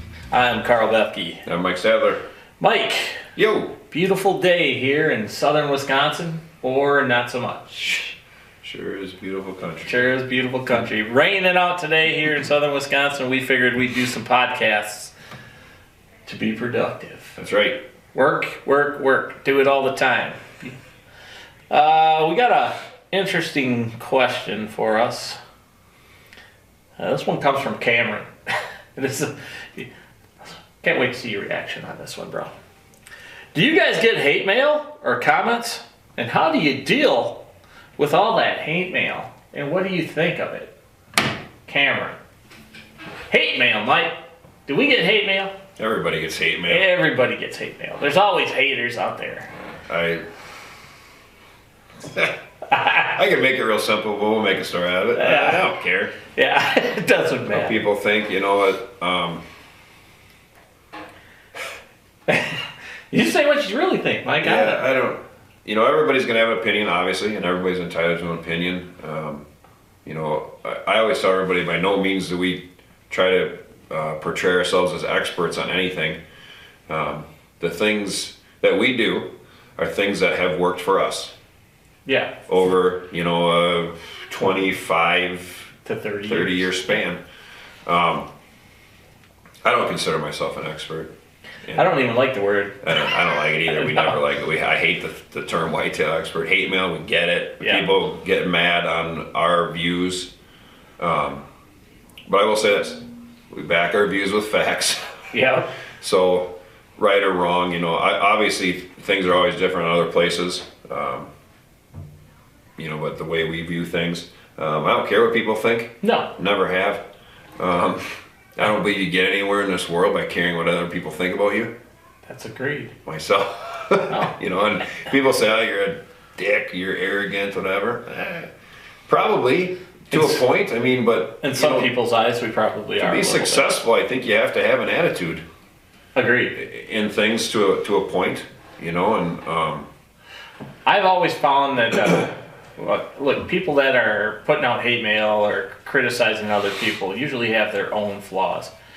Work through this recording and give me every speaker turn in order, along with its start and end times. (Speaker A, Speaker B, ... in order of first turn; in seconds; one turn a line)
Speaker A: 0.3-1.4
Speaker B: 1.4-2.2
Speaker A: 2.6-3.2
Speaker B: 3.3-3.8
Speaker A: 3.9-8.2
Speaker B: 8.6-10.1
Speaker A: 9.8-15.1
Speaker A: 16.2-17.3
Speaker B: 17.4-17.8
Speaker A: 18.1-20.7
Speaker A: 21.7-25.4
Speaker A: 27.0-28.3
Speaker A: 28.9-29.9
Speaker A: 30.8-32.5
Speaker A: 33.5-37.4
Speaker A: 38.0-40.7
Speaker A: 41.6-42.2
Speaker A: 43.3-45.5
Speaker B: 45.8-46.9
Speaker A: 46.7-49.5
Speaker B: 49.8-50.2
Speaker B: 52.0-52.3
Speaker A: 52.7-53.1
Speaker B: 52.9-56.1
Speaker A: 55.1-55.7
Speaker A: 56.3-57.8
Speaker B: 57.5-59.4
Speaker A: 62.3-64.8
Speaker B: 64.4-69.4
Speaker B: 70.0-76.2
Speaker B: 76.9-81.3
Speaker A: 82.0-82.5
Speaker B: 82.5-85.7
Speaker A: 85.8-87.0
Speaker B: 86.3-87.2
Speaker B: 87.8-88.3
Speaker B: 89.6-91.1
Speaker B: 91.7-92.0
Speaker A: 91.7-94.1
Speaker B: 92.8-100.3
Speaker A: 97.6-97.8
Speaker B: 101.0-101.4
Speaker B: 102.3-105.1
Speaker A: 105.3-105.7
Speaker B: 106.0-111.3
Speaker B: 112.8-117.0
Speaker A: 116.0-116.3
Speaker B: 117.6-121.7
Speaker A: 122.2-122.9
Speaker B: 123.0-128.5
Speaker A: 124.1-124.3
Speaker B: 129.1-131.9
Speaker A: 130.1-130.4
Speaker A: 131.4-133.8
Speaker B: 133.0-135.4
Speaker A: 136.1-136.6
Speaker B: 136.6-139.9
Speaker A: 140.8-148.7